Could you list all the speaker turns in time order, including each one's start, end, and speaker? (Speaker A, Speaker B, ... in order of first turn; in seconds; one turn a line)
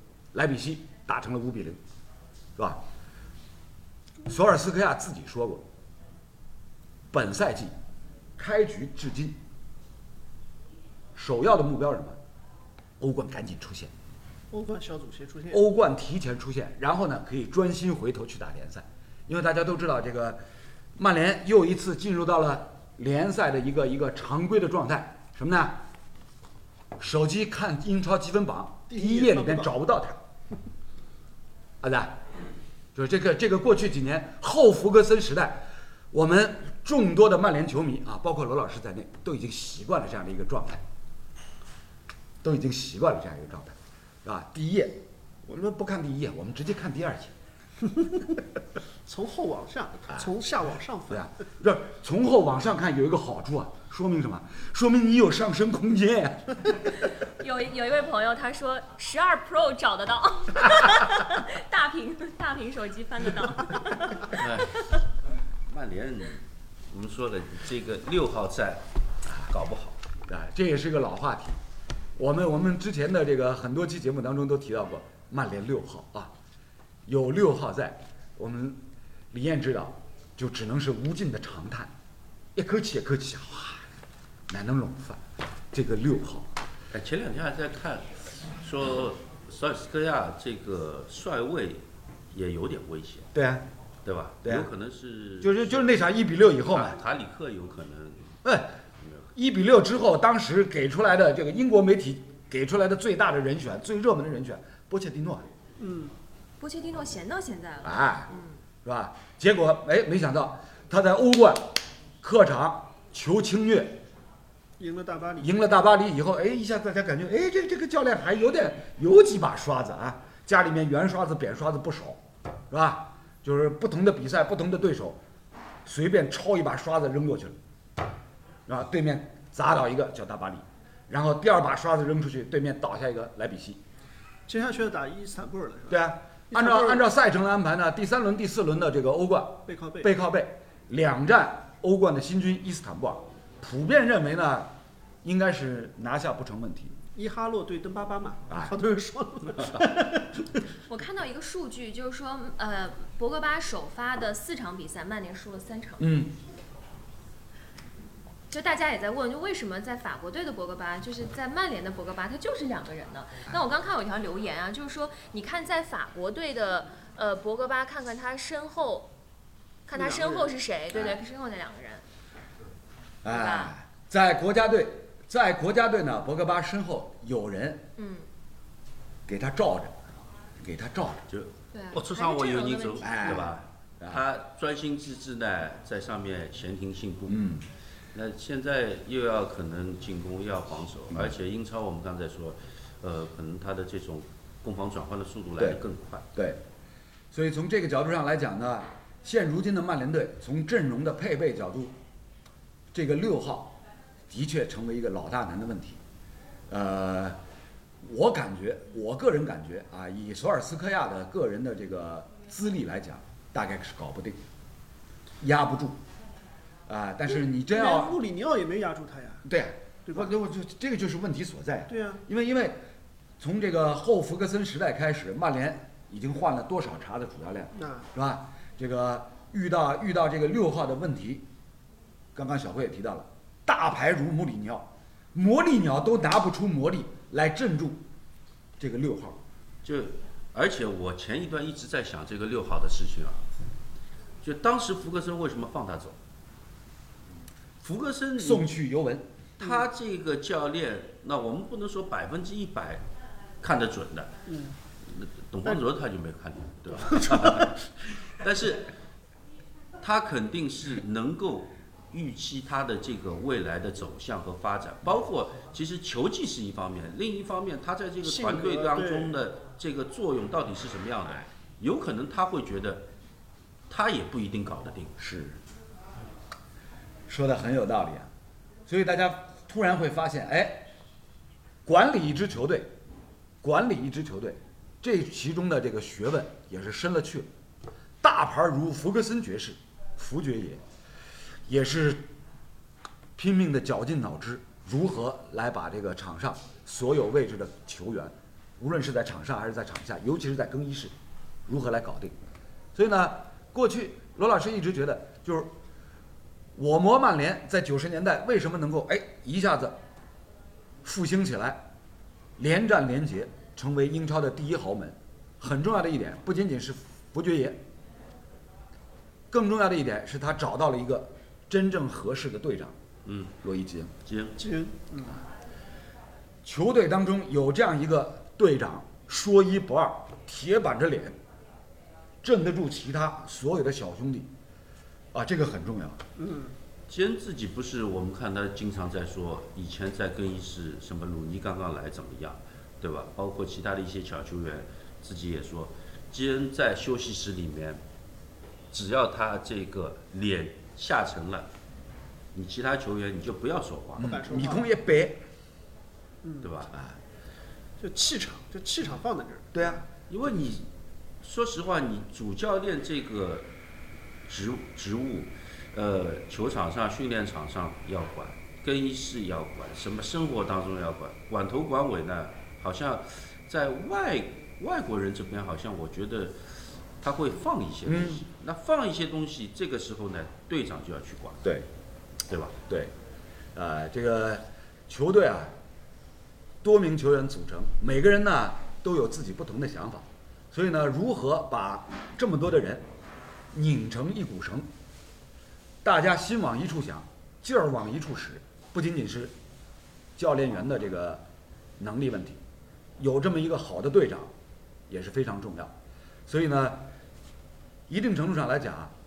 Speaker A: 0.3-1.8
Speaker A: 4.2-5.6
Speaker A: 7.1-7.7
Speaker A: 8.4-9.4
Speaker A: 11.1-12.2
Speaker A: 13.0-13.9
Speaker B: 14.5-15.6
Speaker A: 15.5-20.4
Speaker A: 20.9-25.8
Speaker A: 27.0-30.2
Speaker B: 28.9-29.7
Speaker A: 31.8-32.2
Speaker A: 32.9-40.8
Speaker A: 42.4-47.3
Speaker B: 47.9-48.2
Speaker B: 49.0-51.3
Speaker A: 51.1-56.8
Speaker C: 57.0-65.0
Speaker D: 64.3-64.8
Speaker D: 65.7-68.8
Speaker D: 69.5-70.0
Speaker A: 70.3-71.6
Speaker A: 72.2-76.3
Speaker A: 77.1-78.8
Speaker A: 79.3-81.9
Speaker A: 82.5-83.9
Speaker A: 84.5-86.5
Speaker D: 86.9-93.3
Speaker A: 93.3-93.7
Speaker D: 94.0-96.0
Speaker A: 95.4-97.0
Speaker D: 96.7-98.4
Speaker A: 98.4-98.7
Speaker A: 99.3-105.5
Speaker B: 105.8-106.1
Speaker C: 106.6-108.5
Speaker A: 107.8-108.3
Speaker A: 108.8-114.0
Speaker B: 114.8-115.5
Speaker A: 115.4-125.2
Speaker A: 125.8-127.5
Speaker A: 128.7-133.8
Speaker B: 134.5-136.0
Speaker A: 135.9-144.7
Speaker B: 136.5-137.1
Speaker B: 139.7-140.1
Speaker A: 145.2-146.9
Speaker B: 147.1-150.6
Speaker C: 150.8-156.1
Speaker A: 156.0-156.3
Speaker C: 158.5-169.1
Speaker C: 169.8-172.0
Speaker B: 169.9-170.5
Speaker A: 170.9-171.2
Speaker A: 173.2-177.9
Speaker C: 173.3-173.7
Speaker C: 178.0-178.3
Speaker A: 179.3-181.2
Speaker D: 181.3-187.5
Speaker C: 181.7-183.4
Speaker A: 183.0-184.2
Speaker A: 187.3-187.6
Speaker D: 188.1-196.2
Speaker A: 196.3-196.6
Speaker A: 197.3-201.9
Speaker A: 202.9-206.0
Speaker A: 206.7-207.4
Speaker A: 208.0-214.4
Speaker A: 215.4-216.0
Speaker A: 216.9-218.2
Speaker B: 217.5-219.4
Speaker A: 219.4-222.8
Speaker B: 221.9-222.2
Speaker A: 223.4-231.4
Speaker B: 227.7-228.1
Speaker A: 232.3-238.0
Speaker A: 238.8-239.4
Speaker D: 239.8-243.4
Speaker D: 244.4-246.2
Speaker D: 247.8-248.7
Speaker A: 248.4-249.3
Speaker D: 249.6-253.0
Speaker D: 253.6-254.4
Speaker B: 254.5-254.8
Speaker D: 255.0-258.9
Speaker B: 256.9-257.8
Speaker D: 260.0-273.0
Speaker B: 268.2-269.4
Speaker D: 273.9-275.2
Speaker A: 275.2-275.6
Speaker A: 277.3-278.3
Speaker A: 278.9-280.9
Speaker A: 281.8-282.9
Speaker A: 283.6-287.5
Speaker A: 288.2-290.8
Speaker A: 291.7-292.3
Speaker A: 293.4-301.1
Speaker A: 301.7-302.3
Speaker A: 302.9-305.7
Speaker A: 306.7-310.0
Speaker A: 311.0-311.8
Speaker A: 312.6-317.8
Speaker A: 319.5-322.9
Speaker D: 323.2-323.5
Speaker A: 323.6-324.1
Speaker D: 324.2-324.6
Speaker B: 324.6-325.4
Speaker A: 326.6-331.4
Speaker A: 332.4-334.5
Speaker A: 335.3-336.2
Speaker B: 336.4-336.7
Speaker D: 337.1-348.0
Speaker D: 348.9-351.7
Speaker D: 352.5-354.4
Speaker A: 354.2-355.4
Speaker B: 354.2-354.9
Speaker B: 356.4-356.7
Speaker D: 356.6-356.9
Speaker A: 356.9-357.2
Speaker B: 358.0-360.0
Speaker A: 359.7-360.0
Speaker D: 360.3-360.9
Speaker D: 361.4-363.7
Speaker D: 364.5-381.7
Speaker A: 378.1-378.4
Speaker D: 382.5-382.8
Speaker A: 382.9-383.1
Speaker A: 383.7-385.7
Speaker A: 386.8-393.0
Speaker A: 393.7-394.9
Speaker A: 396.0-399.5
Speaker A: 400.4-401.4
Speaker A: 402.0-402.6
Speaker A: 403.2-404.5
Speaker A: 405.1-405.9
Speaker A: 406.5-407.1
Speaker A: 408.1-409.1